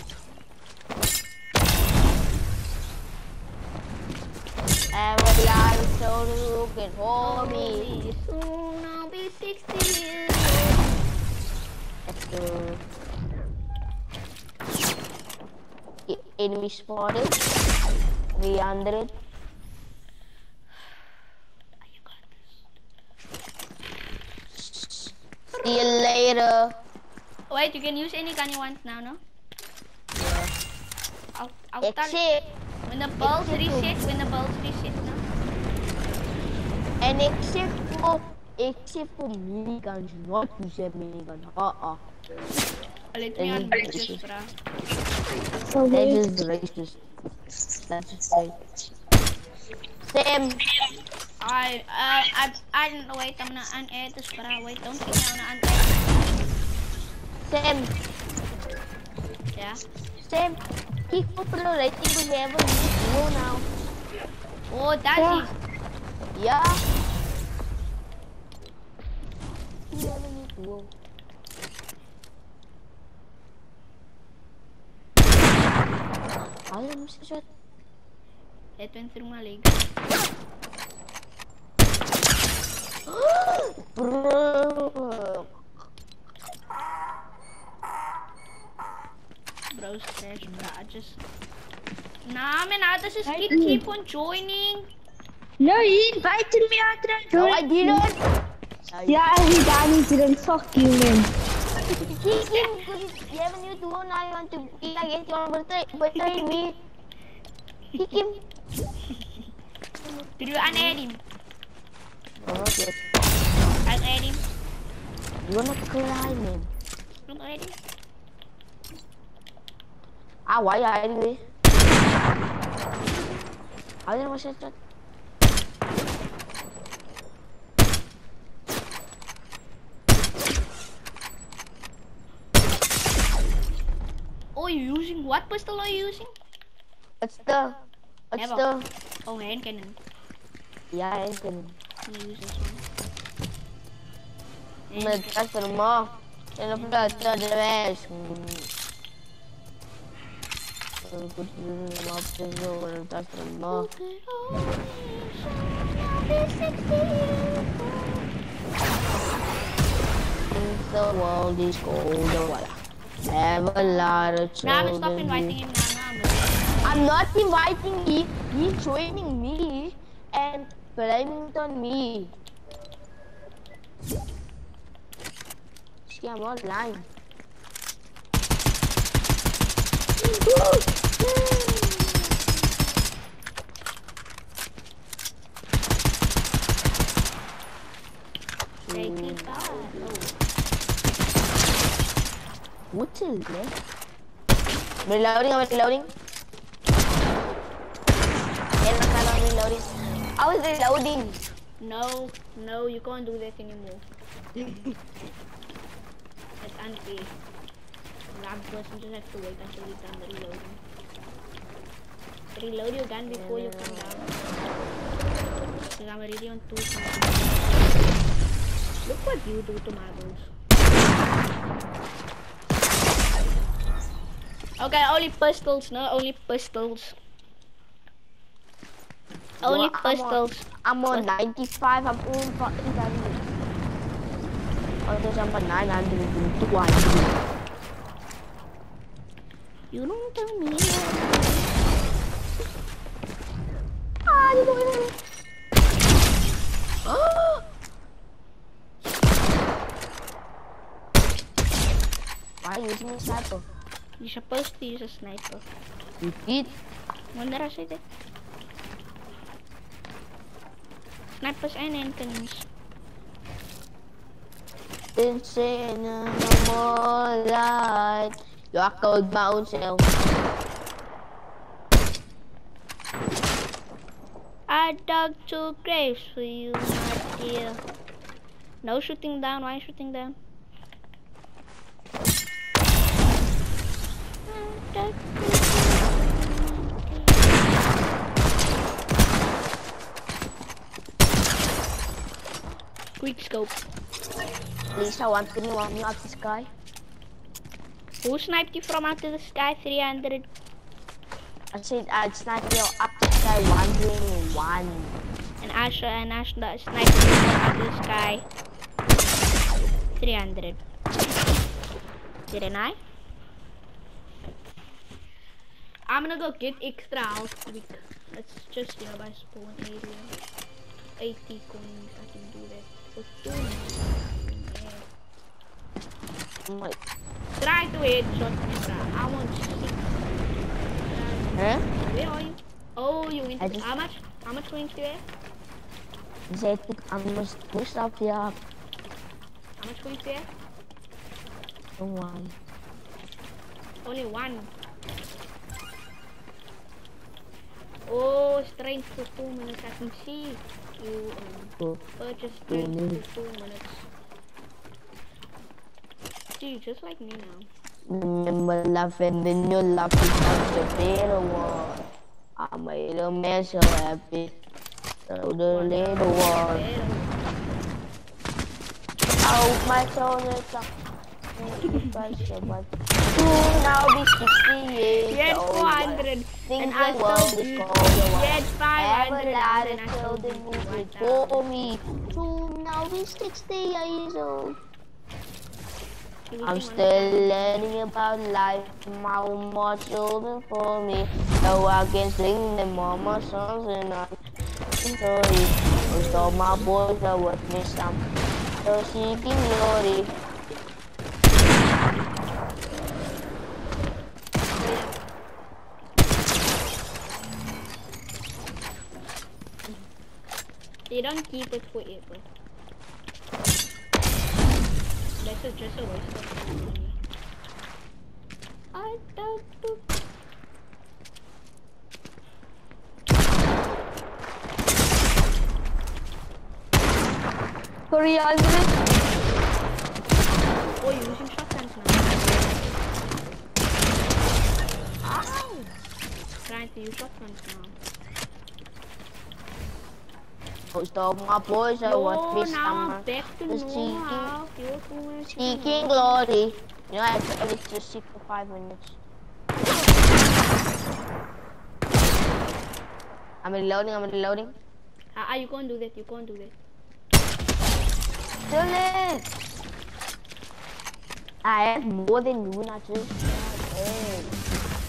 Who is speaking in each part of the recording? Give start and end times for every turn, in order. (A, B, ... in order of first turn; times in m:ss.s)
0:04.9-0:07.9 A
0:07.2-0:10.9 B
0:12.1-0:12.8 A
0:16.1-0:17.4 A
0:18.4-0:19.1 A
0:21.8-0:22.6 B
0:24.5-0:26.8 A
0:27.5-0:29.2 B
0:30.2-0:30.5 A
0:31.4-0:32.2 B
0:31.8-0:32.5 A
0:32.8-0:35.2 B
0:33.2-0:34.0 A
0:37.0-0:42.0 A
0:43.1-0:44.5 B
0:43.4-0:44.2 A
0:45.7-0:46.2 C
0:45.9-0:47.0 A
0:47.9-0:48.6 A
0:50.0-0:50.6 A
0:51.4-0:56.5 B
0:57.4-0:57.9 A
0:59.6-0:59.8 B
1:00.2-1:03.7 A
1:04.7-1:05.6 B
1:05.2-1:05.5 C
1:06.4-1:06.8 A
1:09.9-1:10.9 A
1:16.7-1:17.4 A
1:18.8-1:19.9 B
1:23.1-1:25.5 A
1:29.7-1:31.2 B
1:32.3-1:34.9 B
1:33.3-1:33.8 C
1:35.6-1:38.0 C
1:37.3-1:38.2 A
1:38.9-1:39.3 A
1:39.1-1:41.3 C
1:42.1-1:46.8 A
1:42.5-1:42.8 B
1:48.0-1:48.4 A
1:50.4-1:51.2 B
1:50.6-1:50.9 A
1:52.4-1:53.0 A
1:53.8-1:54.4 B
1:55.4-1:56.7 A
1:57.3-1:57.8 B
2:00.5-2:01.4 A
2:04.1-2:04.8 A
2:14.6-2:16.3 B
2:17.2-2:17.8 A
2:18.3-2:18.9 A
2:18.4-2:18.6 B
2:19.2-2:20.0 B
2:20.9-2:21.8 A
2:22.0-2:22.8 B
2:24.9-2:25.3 B
2:25.0-2:28.7 A
2:26.7-2:27.4 B
2:31.0-2:33.9 A
2:33.7-2:38.2 B
2:40.5-2:42.8 A
2:43.3-2:45.6 A
2:44.0-2:47.1 B
2:46.8-2:52.4 A
2:56.1-2:57.0 A
3:00.2-3:00.9 A
3:01.5-3:02.0 A
3:08.9-3:09.9 A
3:08.9-3:10.4 B
3:12.9-3:13.7 A
3:15.1-3:16.1 A
3:18.8-3:21.4 A
3:21.8-3:24.0 B
3:24.6-3:25.0 A
3:26.6-3:27.4 B
3:28.3-3:30.8 B
3:32.5-3:34.3 B
3:33.3-3:34.1 A
3:35.9-3:38.2 B
3:39.1-3:40.5 B
3:44.8-3:47.2 B
3:49.6-3:53.4 A
3:49.6-3:51.3 B
3:55.0-3:57.5 A
3:59.9-4:01.7 B
4:04.3-4:05.2 A
4:07.0-4:07.6 A
4:12.6-4:13.6 A
4:14.2-4:15.6 B
4:16.2-4:16.7 A
4:17.3-4:18.0 B
4:21.4-4:22.7 B
4:25.2-4:30.1 A
4:34.7-4:37.8 B
4:38.8-4:40.4 B
4:44.5-4:47.7 B
4:53.2-4:53.8 B
4:55.0-4:56.7 A
4:58.2-5:00.5 B
5:01.7-5:05.2 A
5:05.6-5:08.5 B
5:10.2-5:10.8 B
5:12.5-5:13.0 B
5:16.1-5:20.3 B
5:21.2-5:25.1 B
5:26.6-5:27.0 A
5:27.6-5:30.3 B
5:31.0-5:35.2 B
5:31.6-5:31.9 A
5:33.6-5:33.9 A
5:36.5-5:38.6 A
5:39.8-5:40.5 B
5:42.0-5:42.6 A
5:44.0-5:44.7 B
5:48.1-5:54.1 B
5:52.7-5:53.2 A
5:56.6-5:57.7 B
5:58.1-6:02.0 A
6:02.6-6:04.6 A
6:05.3-6:06.8 A
6:05.7-6:07.4 B
6:09.4-6:10.9 A
6:11.6-6:24.8 A
6:15.3-6:21.9 B
6:26.5-6:27.9 B
6:26.6-6:34.3 A
6:35.0-6:38.2 A
6:35.9-6:36.9 B
6:38.8-6:40.3 A
6:44.8-6:45.2 B
6:51.1-6:52.5 B
6:55.4-6:57.2 B
6:59.0-7:00.0 B
7:08.1-7:09.1 A
7:10.9-7:12.8 B
7:15.2-7:15.9 A
7:16.7-7:18.0 B
7:20.9-7:24.6 A
7:22.0-7:26.4 B
7:25.4-7:29.2 A
7:33.6-7:34.8 A
7:35.3-7:36.7 B
7:38.7-7:39.5 A
7:41.6-7:44.6 A